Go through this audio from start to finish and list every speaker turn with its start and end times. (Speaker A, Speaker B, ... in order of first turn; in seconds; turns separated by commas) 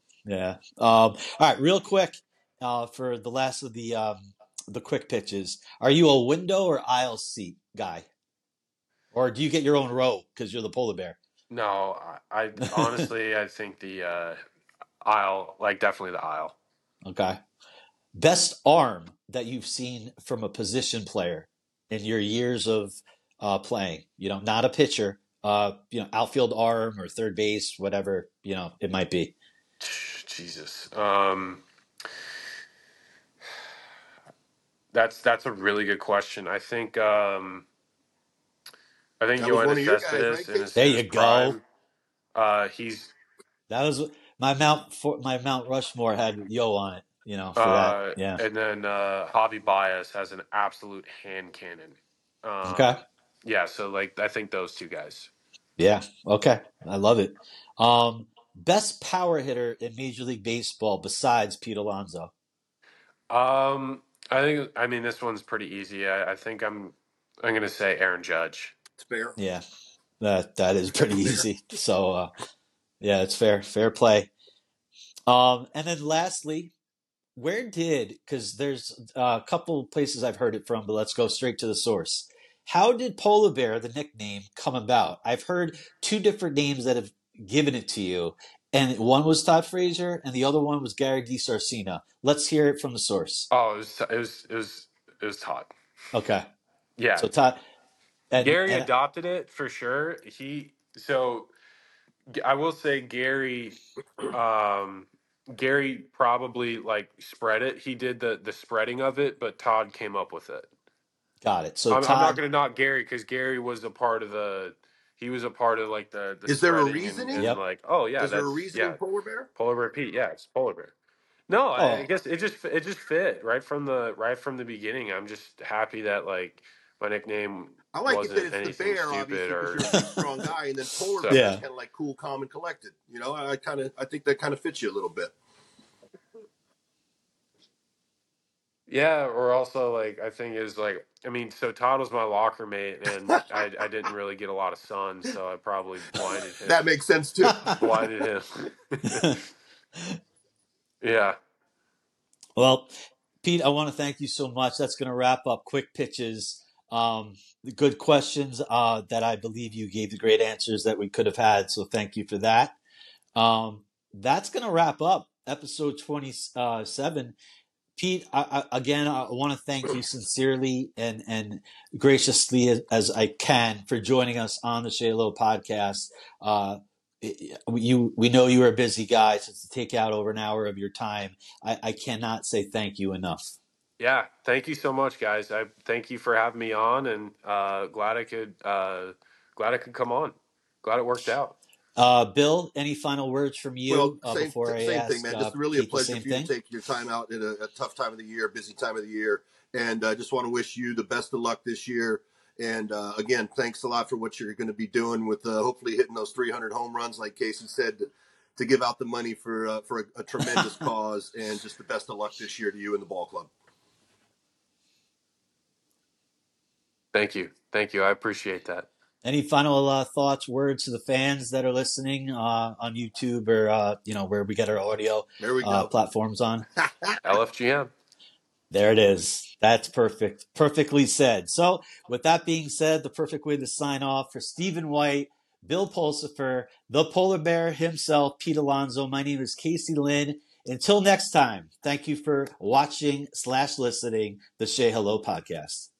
Speaker A: 0.2-8.1, Speaker A: 9.1-11.2, Speaker B: 11.5-14.4, Speaker A: 12.7-13.1, Speaker B: 15.0-16.5, Speaker A: 17.0-17.4, Speaker A: 18.1-29.3, Speaker B: 29.8-31.6, Speaker B: 34.9-37.6, Speaker B: 39.2-41.6, Speaker C: 39.4-40.7, Speaker A: 40.8-41.6, Speaker B: 42.3-43.1, Speaker A: 43.7-48.4, Speaker B: 47.5-52.9, Speaker A: 52.6-53.0, Speaker B: 53.4-55.3, Speaker A: 55.8-62.3, Speaker B: 63.3-68.7, Speaker C: 69.0-69.3, Speaker A: 69.4-69.6, Speaker A: 70.2-72.3, Speaker C: 71.1-71.4, Speaker A: 73.0-74.3, Speaker A: 75.3-76.7, Speaker A: 77.3-93.5, Speaker B: 93.5-95.7, Speaker A: 96.1-96.5, Speaker B: 97.0-97.3, Speaker A: 97.2-97.6, Speaker A: 98.3-98.9, Speaker B: 98.4-101.5, Speaker B: 102.3-103.8, Speaker B: 104.3-110.7, Speaker A: 111.4-112.4, Speaker B: 111.9-119.0, Speaker C: 116.5-117.5, Speaker C: 118.2-119.5, Speaker B: 119.5-120.9, Speaker B: 121.5-129.9, Speaker A: 121.7-122.1, Speaker C: 127.9-135.3, Speaker B: 131.2-131.4, Speaker A: 131.3-131.6, Speaker B: 138.9-146.8, Speaker C: 146.7-147.8, Speaker A: 147.5-147.8, Speaker B: 147.8-149.4, Speaker A: 149.1-149.4, Speaker B: 151.0-151.4, Speaker A: 152.6-162.8, Speaker A: 163.3-167.3, Speaker A: 168.0-183.6, Speaker B: 184.0-191.6, Speaker A: 191.9-196.5, Speaker C: 193.9-213.5, Speaker A: 210.4-210.9, Speaker B: 217.1-218.9, Speaker A: 219.2-226.7, Speaker C: 225.4-225.9, Speaker B: 227.2-227.9, Speaker A: 228.7-245.9